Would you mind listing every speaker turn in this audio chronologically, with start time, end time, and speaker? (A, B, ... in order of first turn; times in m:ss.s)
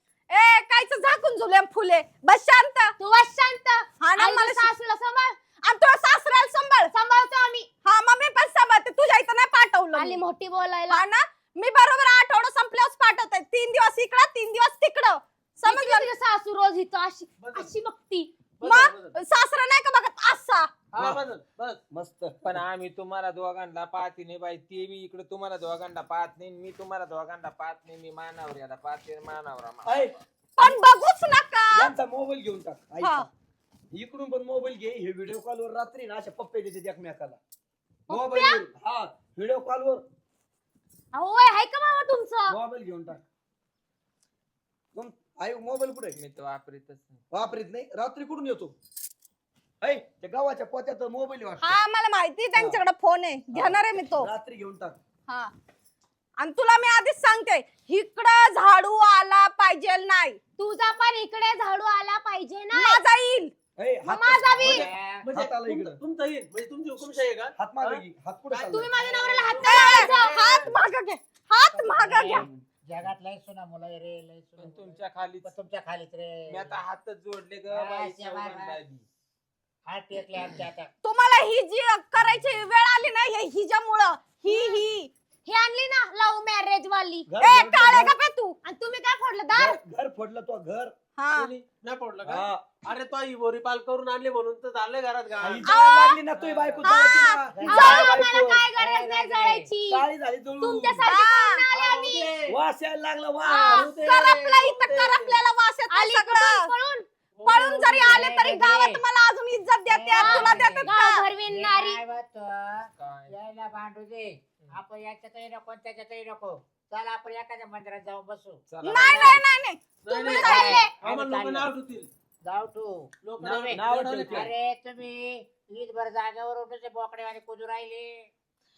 0:00.3-0:03.0 A
0:03.0-0:05.4 B
0:04.0-0:04.7 A
0:05.6-0:06.9 A
0:06.9-0:07.7 B
0:07.8-0:10.2 A
0:09.9-0:11.0 B
0:10.9-0:16.1 A
0:15.6-0:18.3 B
0:17.4-0:17.8 C
0:18.6-0:19.2 C
0:18.6-0:20.7 A
0:20.9-0:21.8 C
0:21.9-0:22.6 D
0:22.4-0:30.0 E
0:29.8-0:30.8 D
0:30.6-0:31.9 A
0:31.7-0:33.3 D
0:33.0-0:33.3 A
0:33.9-0:37.4 D
0:38.1-0:40.0 D
0:38.1-0:38.6 B
0:41.1-0:42.6 B
0:42.5-0:43.2 D
0:45.0-0:46.2 D
0:46.2-0:47.2 E
0:47.3-0:48.7 D
0:49.8-0:51.8 D
0:51.6-0:54.3 A
0:52.6-0:52.8 D
0:53.5-0:55.0 D
0:56.4-1:00.4 A
1:00.6-1:03.0 B
1:02.7-1:03.5 A
1:03.8-1:06.0 D
1:04.0-1:04.8 B
1:04.6-1:10.7 C
1:04.6-1:05.3 F
1:07.6-1:08.9 D
1:08.7-1:10.3 B
1:09.0-1:10.0 F
1:09.6-1:12.5 A
1:11.7-1:16.8 F
1:14.6-1:15.5 E
1:16.5-1:19.1 E
1:17.7-1:18.8 F
1:19.9-1:20.9 F
1:21.0-1:25.1 A
1:24.4-1:24.8 B
1:25.5-1:27.3 B
1:27.3-1:28.1 D
1:27.4-1:28.6 A
1:28.6-1:29.8 B
1:29.5-1:30.9 D
1:31.2-1:31.5 A
1:31.4-1:35.7 C
1:32.2-1:32.6 D
1:35.4-1:38.6 D
1:35.7-1:36.2 A
1:36.3-1:36.9 C
1:36.8-1:38.1 A
1:37.6-1:37.9 F
1:37.6-1:40.1 B
1:38.8-1:39.7 F
1:39.9-1:41.1 D
1:40.6-1:42.4 B
1:41.0-1:41.6 A
1:41.7-1:42.6 C
1:42.5-1:43.9 D
1:43.5-1:43.7 B
1:43.6-1:46.7 A
1:43.7-1:45.5 C
1:45.9-1:47.1 B
1:47.4-1:48.3 C
1:47.5-1:51.3 A
1:48.1-1:49.0 F
1:49.9-1:50.9 F
1:50.1-1:52.0 B
1:51.5-1:59.4 F
1:53.0-1:53.4 E
1:58.7-1:59.4 E
1:58.8-2:00.7 A
2:00.0-2:02.1 C
2:00.1-2:01.0 B
2:00.4-2:01.7 F
2:02.4-2:08.3 F
2:03.2-2:04.5 C
2:03.4-2:04.5 D